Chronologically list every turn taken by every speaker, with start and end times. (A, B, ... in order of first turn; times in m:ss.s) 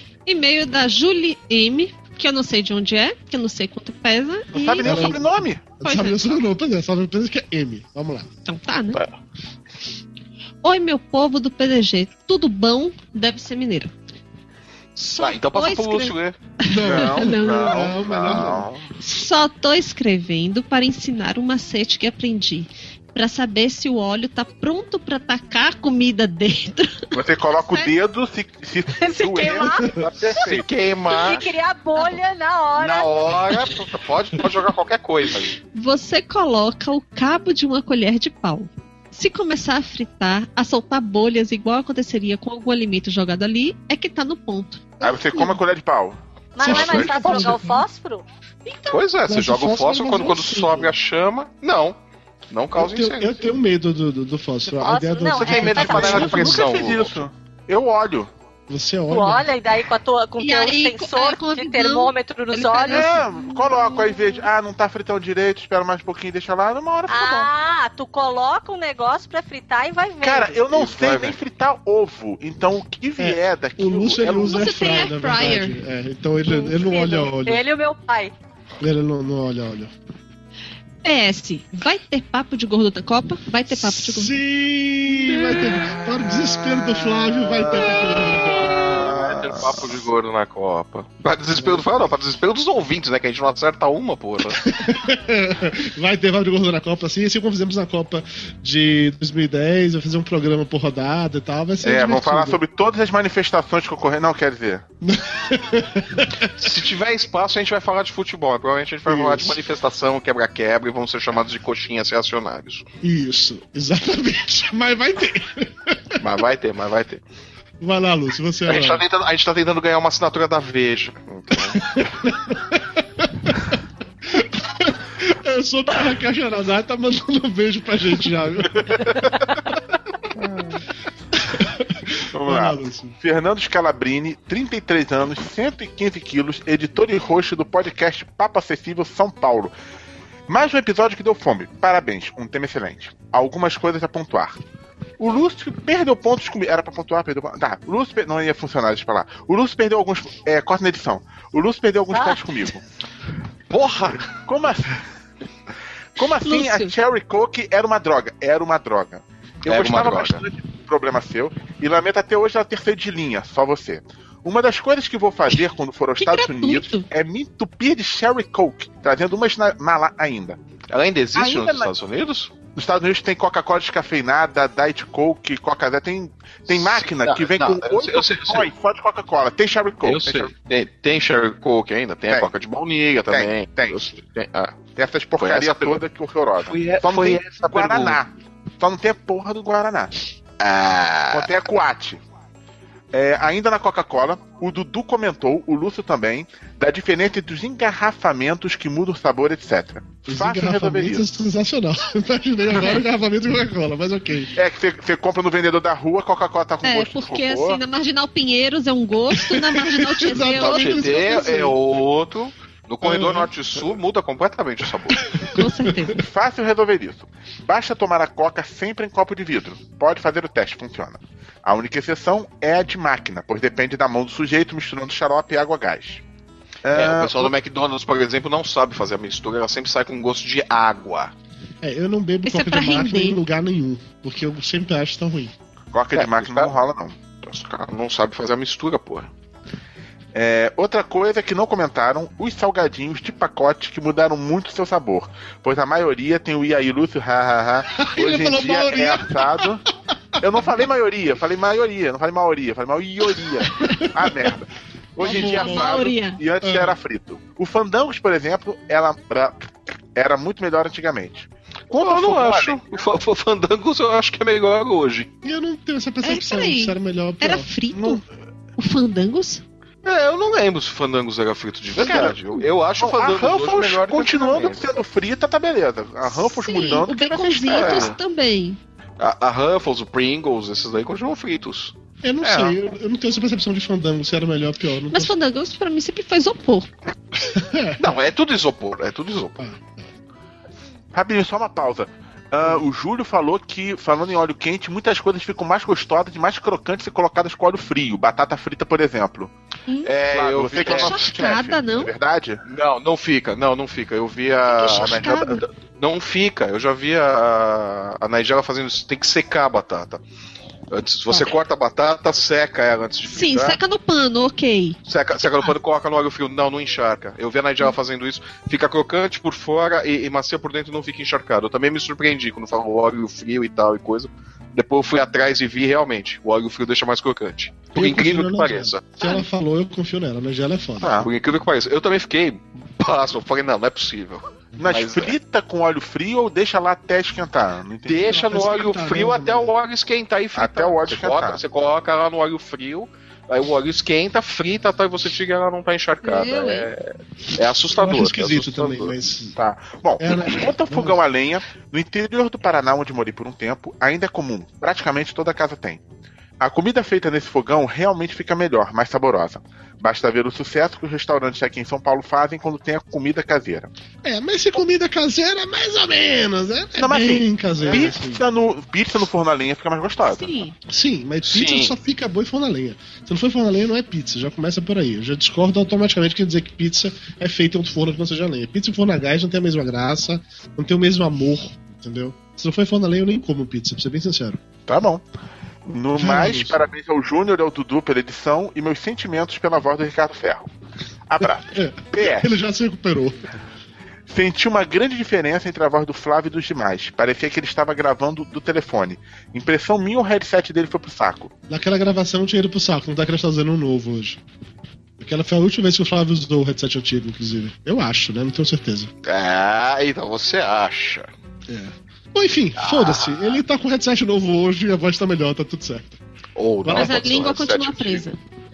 0:00.3-0:05.2 A
0:04.5-0:05.6 B
0:04.8-0:08.3 C
0:05.8-0:06.2 A
0:08.5-0:09.0 A
0:10.6-0:13.9 A
0:15.0-0:17.8 A
0:15.2-0:16.4 D
0:16.6-0:18.7 C
0:16.8-0:18.8 B
0:19.0-0:27.0 A
0:27.1-0:30.6 B
0:29.0-0:30.0 E
0:30.0-0:31.5 D
0:31.1-0:33.1 E
0:32.8-0:35.6 D
0:35.7-0:44.9 A
0:45.0-0:45.5 C
0:45.0-0:47.4 B
0:46.6-0:48.2 E
0:46.6-0:47.8 C
0:46.6-0:47.5 D
0:48.7-0:49.0 A
0:48.9-0:52.0 D
0:49.3-0:51.0 C
0:52.5-0:53.5 D
0:52.8-0:56.7 C
0:54.8-0:56.4 E
0:55.3-0:57.2 D
0:55.8-0:58.3 B
0:58.7-0:59.5 C
0:59.1-1:03.1 E
1:00.4-1:04.4 A
1:02.9-1:07.5 B
1:07.1-1:10.8 E
1:10.2-1:15.0 B
1:10.7-1:11.4 D
1:13.2-1:17.6 C
1:14.3-1:15.8 A
1:16.5-1:18.3 E
1:18.8-1:19.9 C
1:21.0-1:24.4 A
1:23.7-1:29.0 C
1:28.6-1:34.6 D
1:28.9-1:29.9 B
1:31.5-1:31.9 C
1:34.5-1:42.6 C
1:41.8-1:44.8 B
1:45.0-1:46.7 C
1:46.6-1:52.9 D
1:49.1-1:49.6 C
1:53.0-1:56.2 C
1:56.2-1:57.2 D
1:57.8-1:59.0 C
1:58.7-2:01.8 D
2:01.7-2:03.7 C
2:04.3-2:09.1 C
2:08.8-2:09.3 D
2:10.4-2:10.8 B
2:11.4-2:13.2 C
2:12.3-2:19.7 B
2:20.5-2:24.6 B
2:25.2-2:32.8 B
2:32.1-2:32.4 E
2:33.7-2:34.3 D
2:34.5-2:34.9 B
2:36.2-2:50.6 B
2:36.4-2:36.9 A
2:39.7-2:40.4 D
2:46.2-2:47.1 A
2:50.9-2:52.5 D
2:51.4-2:51.9 B
2:52.8-3:00.5 B
2:56.7-2:58.7 D
3:00.0-3:04.8 D
3:03.3-3:04.0 B
3:05.0-3:08.3 B
3:05.4-3:06.0 D
3:06.6-3:08.2 D
3:08.8-3:10.1 B
3:10.6-3:11.6 D
3:11.3-3:12.2 B
3:13.1-3:21.3 B
3:20.3-3:24.6 C
3:24.6-3:27.8 B
3:26.8-3:31.5 A
3:29.3-3:31.8 C
3:30.4-3:35.3 D
3:33.0-3:33.5 C
3:35.2-3:36.0 C
3:35.5-3:36.2 A
3:36.2-3:46.2 B
3:46.8-3:47.5 B
3:46.9-3:51.3 D
3:51.8-3:55.5 C
3:52.5-3:53.4 A
3:55.9-3:57.2 B
3:56.1-3:56.7 D
3:57.4-3:59.3 D
4:00.3-4:09.8 B
4:08.0-4:09.7 C
4:10.4-4:23.1 B
4:13.6-4:14.3 C
4:15.2-4:17.0 C
4:15.3-4:16.4 A
4:22.0-4:25.3 D
4:25.4-4:28.2 C
4:26.2-4:28.2 A
4:28.8-4:29.6 A
4:30.0-4:34.8 D
4:32.0-4:38.1 B
4:36.2-4:38.8 A
4:37.7-4:38.2 D
4:39.2-4:41.9 D
4:42.2-4:45.3 C
4:42.4-4:42.8 B
4:45.1-4:46.9 A
4:47.5-4:48.0 C
4:48.0-4:49.6 D
4:49.6-4:50.1 C
4:51.1-4:59.5 B
5:00.0-5:01.2 D
5:00.3-5:02.6 B
5:00.8-5:02.1 A
5:02.7-5:10.2 D
5:04.7-5:05.6 A
5:10.9-5:13.8 D
5:13.3-5:15.0 A
5:15.1-5:29.1 D
5:27.9-5:31.2 C
5:29.2-5:29.4 A
5:31.0-5:31.3 B
5:31.2-5:35.4 D
5:34.8-5:38.5 B
5:38.0-5:49.2 D
5:38.2-5:39.7 C
5:40.6-5:41.6 B
5:46.2-5:46.9 A
5:48.0-5:49.6 C
5:49.6-5:56.0 B
5:50.2-5:51.2 C
5:56.6-6:03.9 B
6:04.2-6:08.4 C
6:07.0-6:10.5 B
6:10.2-6:10.8 A
6:10.9-6:24.6 C
6:11.5-6:11.9 D
6:24.9-6:25.2 B
6:25.9-6:30.7 B
6:26.2-6:26.8 C
6:31.3-6:32.5 B
6:31.7-6:33.4 C
6:34.3-6:41.5 B
6:41.7-6:44.4 C
6:45.2-6:49.1 C
6:49.2-6:51.3 D
6:51.7-6:56.2 C
6:52.8-6:53.6 D
6:56.6-6:58.2 D
6:56.8-6:57.5 C
6:56.9-6:58.4 A